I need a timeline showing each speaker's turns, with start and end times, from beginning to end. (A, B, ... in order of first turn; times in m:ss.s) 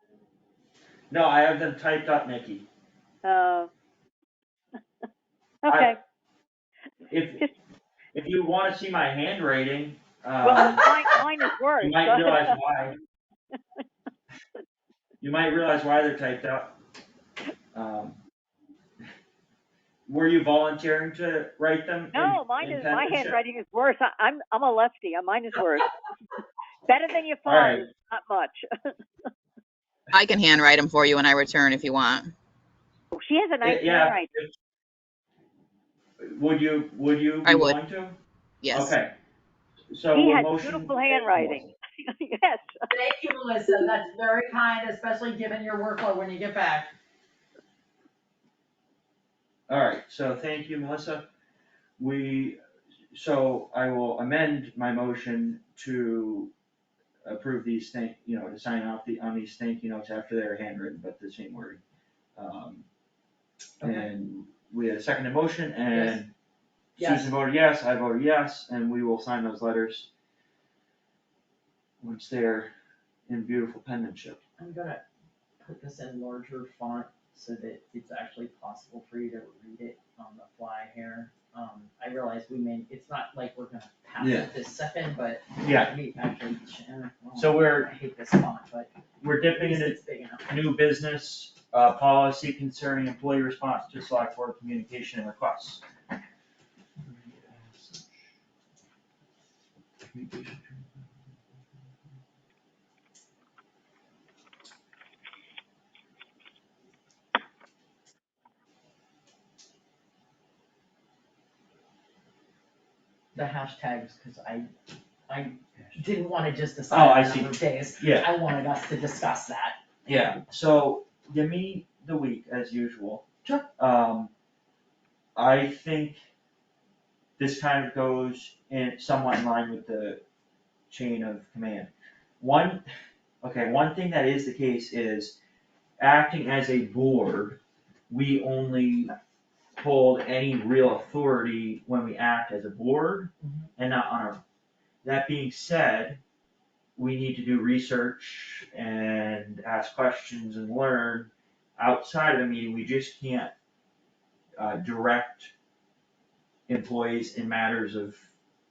0:01.1-0:02.7 A
0:03.2-0:03.7 B
0:05.6-0:06.0 B
0:05.7-0:05.9 A
0:07.1-0:07.4 A
0:08.1-0:11.0 A
0:10.4-0:12.6 B
0:11.8-0:13.0 A
0:15.2-0:16.8 A
0:17.7-0:18.2 A
0:20.1-0:23.4 A
0:22.1-0:25.9 B
0:26.9-0:28.9 B
0:27.4-0:27.8 A
0:30.1-0:32.3 C
0:33.2-0:34.3 B
0:33.6-0:34.5 A
0:36.2-0:38.2 A
0:37.5-0:37.8 C
0:38.6-0:38.9 C
0:38.7-0:39.1 A
0:39.9-0:41.7 A
0:40.1-0:42.8 B
0:42.9-0:46.9 D
0:49.7-0:51.3 A
0:52.0-0:52.6 A
0:53.1-0:56.5 A
0:57.2-1:01.8 A
1:02.4-1:02.9 A
1:03.8-1:04.1 D
1:03.8-1:06.3 A
1:05.9-1:06.2 D
1:07.0-1:10.1 A
1:07.0-1:07.3 D
1:12.0-1:12.7 A
1:13.3-1:14.4 A
1:14.6-1:15.0 D
1:15.6-1:28.9 D
1:24.2-1:24.5 A
1:25.6-1:25.9 A
1:27.4-1:27.9 A
1:29.2-1:35.8 A
1:29.4-1:30.5 D
1:37.0-1:38.2 A
1:40.1-1:41.1 A
1:53.3-1:54.7 D
1:55.3-1:59.8 D
1:56.9-1:58.3 A
2:00.1-2:03.2 A
2:03.8-2:04.3 A
2:05.4-2:06.2 A
2:07.4-2:10.2 A
2:10.9-2:12.8 A
2:13.4-2:15.4 A
2:16.0-2:19.1 A
2:19.8-2:24.4 A
2:23.4-2:23.7 D
2:25.0-2:26.2 A
2:27.0-2:33.5 A
2:34.6-2:35.5 A
2:36.7-2:38.3 A